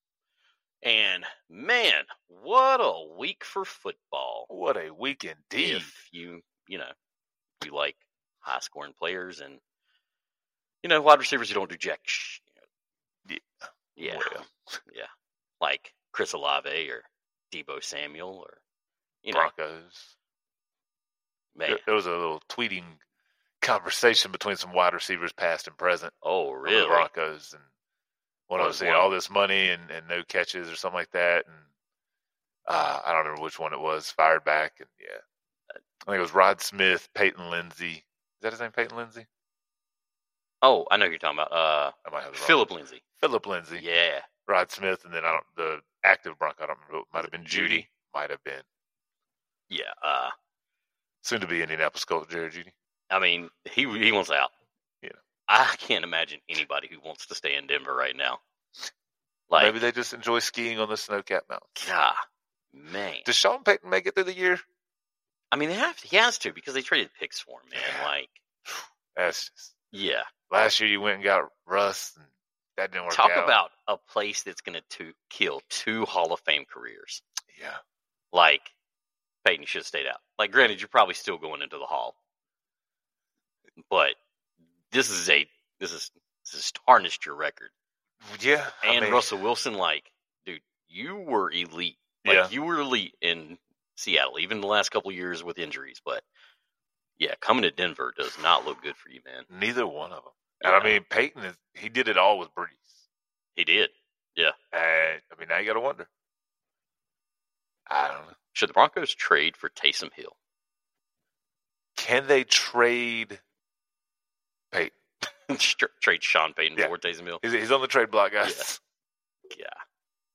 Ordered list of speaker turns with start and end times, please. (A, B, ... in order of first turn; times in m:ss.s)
0:00.8-0:04.5 A
0:04.5-0:05.9 B
0:05.6-0:06.9 A
0:07.6-0:09.6 A
0:10.8-0:12.5 A
0:13.3-0:14.5 B
0:14.0-0:15.1 A
0:15.6-0:18.6 A
0:19.2-0:19.5 A
0:19.3-0:20.1 B
0:21.6-0:21.9 A
0:21.7-0:23.0 B
0:23.6-0:26.1 B
0:26.2-0:27.1 A
0:26.7-0:27.7 B
0:28.5-0:31.7 B
0:28.6-0:29.1 A
0:32.7-0:35.2 B
0:36.0-0:39.3 B
0:40.6-0:43.0 A
0:42.0-0:42.6 B
0:43.2-0:43.8 B
0:43.8-0:44.3 A
0:44.5-0:48.6 B
0:47.2-0:47.9 A
0:49.7-0:50.3 A
0:51.2-0:52.7 B
0:53.1-0:54.5 A
0:55.5-0:58.4 A
0:59.5-0:59.8 A
0:59.6-1:01.9 B
1:01.8-1:02.2 A
1:02.7-1:03.3 A
1:03.2-1:04.6 B
1:05.5-1:08.4 A
1:07.7-1:08.1 B
1:08.7-1:09.7 B
1:09.9-1:10.3 A
1:10.5-1:13.6 B
1:13.1-1:17.2 A
1:17.5-1:17.8 B
1:18.3-1:18.7 A
1:19.4-1:22.2 A
1:23.9-1:24.2 A
1:24.9-1:27.7 A
1:28.2-1:29.3 B
1:28.8-1:36.2 A
1:32.2-1:32.5 B
1:37.2-1:39.5 A
1:39.5-1:43.0 B
1:40.6-1:41.0 A
1:43.6-1:44.6 A
1:44.7-1:46.1 B
1:47.9-1:48.4 B
1:48.5-1:50.4 A
1:52.0-1:53.4 B
1:55.2-1:57.4 A
1:57.4-1:58.8 B
1:59.5-1:59.8 A